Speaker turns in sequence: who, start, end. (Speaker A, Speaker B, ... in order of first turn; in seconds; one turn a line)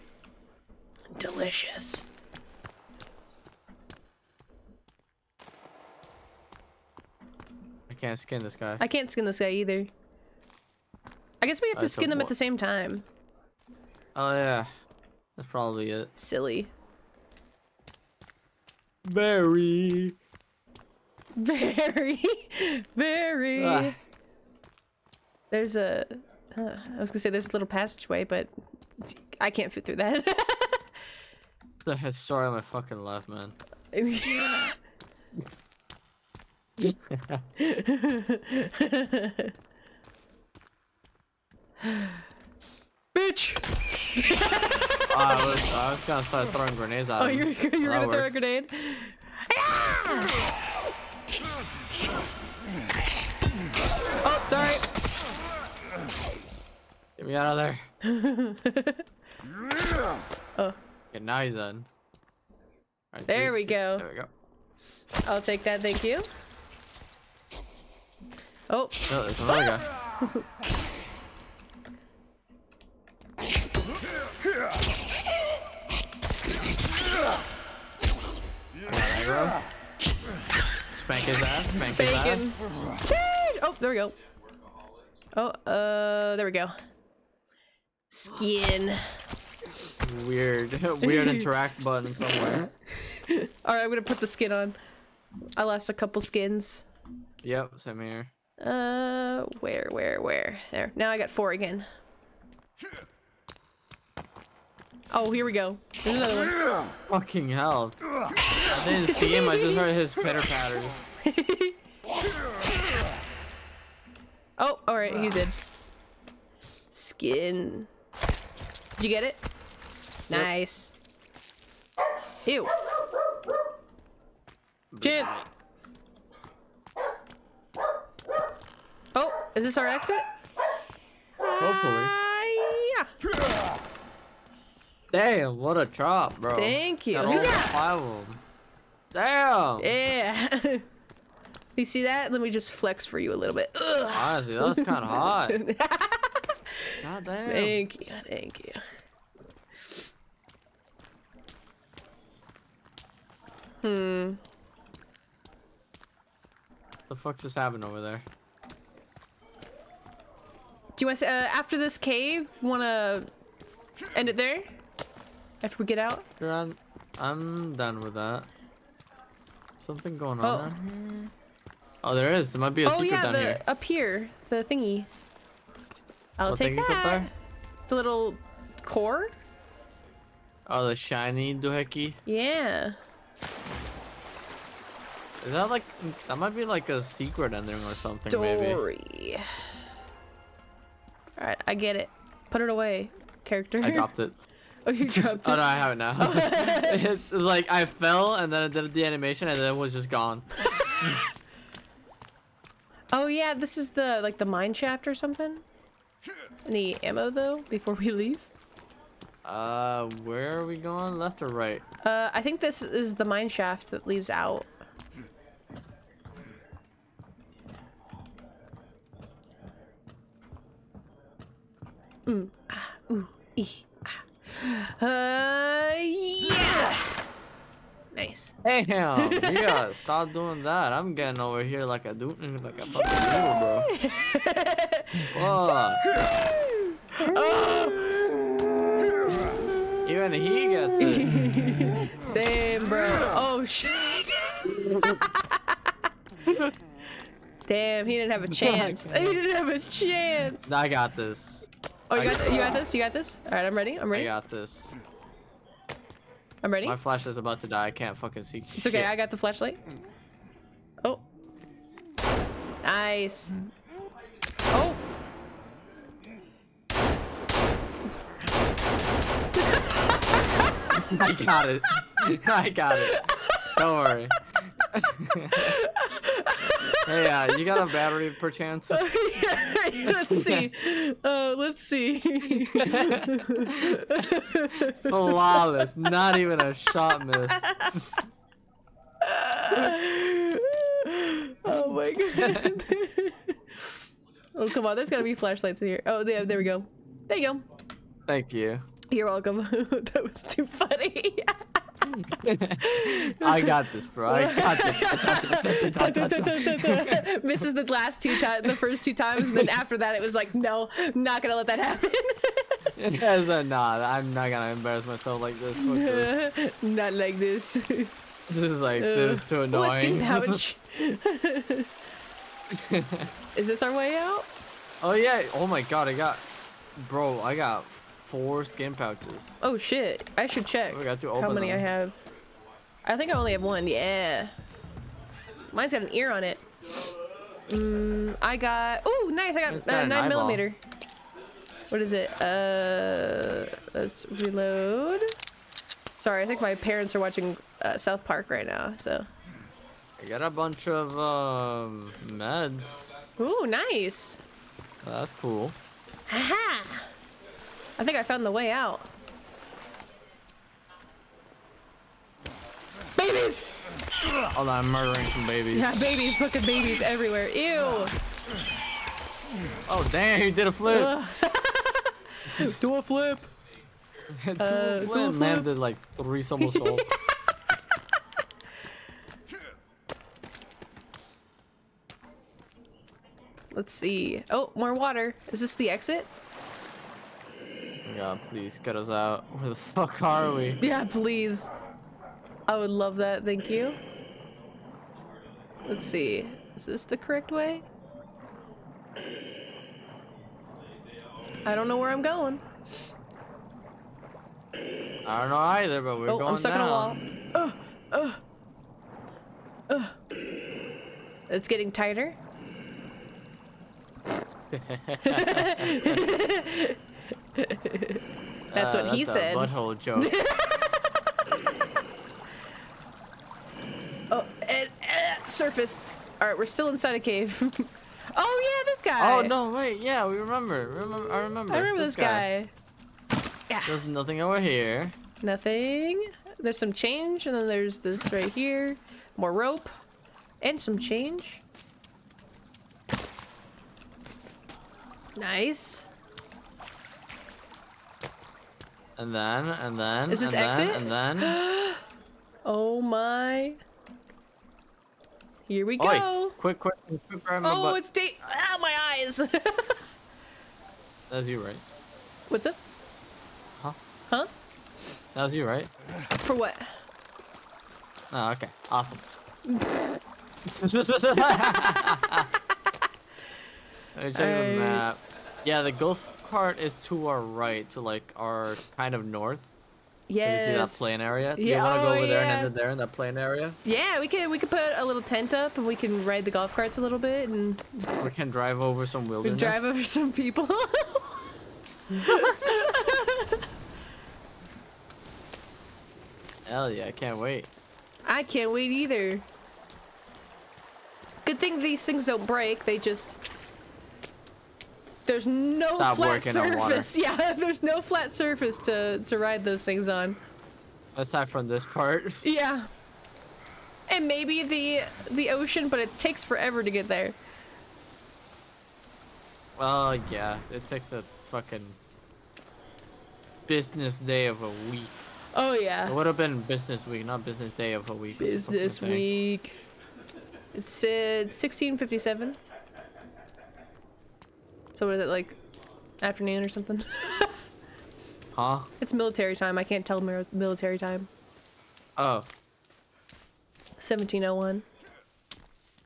Speaker A: 1.1-2.1
Speaker B: 7.9-8.8
Speaker A: 8.8-9.9
Speaker A: 11.4-13.1
Speaker B: 11.8-12.3
Speaker B: 14.2-14.7
Speaker B: 15.4-16.1
Speaker A: 16.1-16.7
Speaker B: 19.1-20.2
Speaker A: 21.4-24.0
Speaker B: 23.6-24.0
Speaker A: 25.5-30.9
Speaker B: 31.9-33.5
Speaker A: 33.9-34.8
Speaker B: 36.8-37.4
Speaker A: 37.6-39.5
Speaker A: 41.8-42.2
Speaker A: 43.1-45.5
Speaker B: 45.1-48.5
Speaker A: 47.2-50.4
Speaker A: 54.2-54.9
Speaker B: 57.2-57.9
Speaker A: 58.0-59.0
Speaker B: 61.1-61.9
Speaker B: 63.1-64.3
Speaker A: 63.3-64.1
Speaker A: 65.3-66.3
Speaker A: 68.7-69.7
Speaker B: 69.1-69.9
Speaker B: 78.9-79.6
Speaker B: 80.9-82.6
Speaker A: 81.7-84.2
Speaker A: 85.3-86.8
Speaker A: 88.1-89.2
Speaker B: 90.0-92.7
Speaker A: 91.0-91.4
Speaker A: 93.0-94.8
Speaker A: 95.6-96.9
Speaker B: 97.4-98.3
Speaker A: 98.6-101.9
Speaker A: 105.1-106.6
Speaker B: 107.1-108.0
Speaker B: 108.5-111.1
Speaker A: 109.1-109.8
Speaker A: 111.2-111.8
Speaker A: 114.6-115.6
Speaker A: 116.9-117.9
Speaker A: 119.0-119.4
Speaker A: 120.3-121.0
Speaker A: 122.5-122.7
Speaker B: 124.9-125.5
Speaker A: 125.0-125.5
Speaker A: 129.2-130.3
Speaker A: 131.4-133.1
Speaker B: 131.6-132.1
Speaker B: 135.1-138.4
Speaker A: 136.5-137.7
Speaker B: 139.1-139.9
Speaker A: 139.8-140.8
Speaker A: 141.8-148.8
Speaker B: 144.1-145.6
Speaker B: 147.0-147.8
Speaker A: 153.8-154.4
Speaker B: 157.1-158.3
Speaker A: 161.0-163.3
Speaker A: 164.1-164.8
Speaker A: 165.6-166.3
Speaker B: 166.4-168.5
Speaker B: 169.8-170.8
Speaker A: 170.4-171.3
Speaker B: 172.0-173.6
Speaker A: 172.8-175.1
Speaker A: 176.4-177.3
Speaker B: 176.5-177.3
Speaker A: 177.9-179.4
Speaker B: 180.7-182.2
Speaker A: 182.3-183.0
Speaker B: 185.4-188.8
Speaker A: 188.3-189.6
Speaker A: 191.4-194.1
Speaker B: 193.8-194.4
Speaker A: 194.9-197.1
Speaker B: 195.0-201.2
Speaker A: 203.1-205.6
Speaker A: 206.7-208.5
Speaker B: 209.4-211.8
Speaker A: 212.0-214.7
Speaker A: 222.3-227.2
Speaker A: 228.1-228.6
Speaker B: 228.6-233.9
Speaker A: 229.2-229.8
Speaker A: 233.9-235.3
Speaker B: 235.3-236.0
Speaker A: 236.2-238.3
Speaker B: 240.0-241.4
Speaker A: 241.0-245.7
Speaker B: 246.5-246.7
Speaker A: 247.7-250.7
Speaker B: 248.5-249.4
Speaker B: 250.7-252.5
Speaker A: 252.1-254.3
Speaker B: 254.1-255.0
Speaker A: 256.6-257.0
Speaker B: 256.8-259.1
Speaker A: 258.8-259.8
Speaker A: 262.8-263.6
Speaker A: 264.7-265.0
Speaker A: 269.9-270.8
Speaker B: 270.9-275.8
Speaker A: 273.0-273.8
Speaker A: 275.5-277.8
Speaker B: 276.8-279.1
Speaker A: 278.9-286.1
Speaker B: 280.1-280.7
Speaker B: 282.6-288.2
Speaker A: 287.6-288.1
Speaker A: 289.2-293.9
Speaker B: 292.3-292.8
Speaker A: 294.6-297.6
Speaker B: 298.3-298.9
Speaker A: 299.1-301.8
Speaker B: 302.1-307.4
Speaker A: 302.8-312.9
Speaker B: 308.3-308.8
Speaker B: 309.4-309.7
Speaker B: 312.9-316.4
Speaker A: 315.8-318.1
Speaker B: 318.5-320.6
Speaker A: 319.0-321.9
Speaker B: 322.7-323.3
Speaker A: 323.5-324.5
Speaker B: 325.0-326.4
Speaker B: 327.0-329.6
Speaker A: 329.6-332.2
Speaker B: 330.9-331.9
Speaker A: 333.1-334.5
Speaker A: 335.7-336.6
Speaker A: 337.7-340.8
Speaker B: 339.7-340.6
Speaker A: 341.9-345.3
Speaker A: 346.2-349.3
Speaker B: 350.2-353.2
Speaker A: 353.4-354.4
Speaker B: 355.0-355.8
Speaker A: 356.3-357.1
Speaker A: 358.0-359.1
Speaker A: 363.1-364.1
Speaker B: 364.5-365.9
Speaker A: 365.7-368.1
Speaker B: 369.9-371.2
Speaker A: 370.9-373.5
Speaker B: 372.5-372.8
Speaker B: 374.3-377.3
Speaker A: 374.6-375.7
Speaker A: 376.6-377.3
Speaker A: 383.7-386.3
Speaker B: 388.0-390.8
Speaker A: 390.8-391.7
Speaker A: 392.7-394.0
Speaker A: 395.9-397.8
Speaker A: 401.6-402.6
Speaker B: 405.2-407.2
Speaker A: 406.3-408.4
Speaker A: 409.9-410.2
Speaker A: 411.5-412.4
Speaker B: 414.7-416.3
Speaker A: 415.2-417.0
Speaker A: 417.6-418.2
Speaker B: 418.7-420.4
Speaker A: 418.8-421.2
Speaker A: 424.3-429.5
Speaker B: 429.2-432.5
Speaker A: 431.7-432.7
Speaker A: 433.7-434.0
Speaker B: 433.9-435.1
Speaker A: 435.4-439.9
Speaker A: 440.6-441.6
Speaker A: 445.4-446.1
Speaker B: 449.2-451.6
Speaker A: 450.3-452.0
Speaker A: 452.6-453.8
Speaker A: 455.7-456.6
Speaker B: 456.0-458.0
Speaker A: 457.6-460.0
Speaker B: 461.3-461.8
Speaker A: 462.5-462.8
Speaker B: 465.4-465.9
Speaker A: 466.4-467.0
Speaker B: 468.3-469.2
Speaker A: 469.7-470.2
Speaker B: 470.6-472.5
Speaker B: 474.1-479.7
Speaker A: 474.3-475.1
Speaker A: 480.3-482.7
Speaker B: 480.4-483.8
Speaker A: 483.9-488.3
Speaker B: 488.2-489.9
Speaker A: 489.4-491.5
Speaker A: 492.1-493.7
Speaker B: 492.2-492.6
Speaker B: 496.7-497.7
Speaker A: 498.2-499.5
Speaker A: 501.4-503.4
Speaker A: 505.3-510.4
Speaker B: 506.0-507.1
Speaker B: 511.1-512.5
Speaker A: 512.4-512.9
Speaker A: 514.1-517.4
Speaker B: 519.8-522.0
Speaker B: 523.7-525.1
Speaker A: 525.5-526.2
Speaker B: 526.1-529.3
Speaker A: 528.4-529.8
Speaker A: 530.7-532.6
Speaker A: 535.0-535.6
Speaker A: 536.2-537.6
Speaker B: 538.5-538.9
Speaker A: 539.0-541.3
Speaker B: 542.2-542.5
Speaker A: 544.0-544.9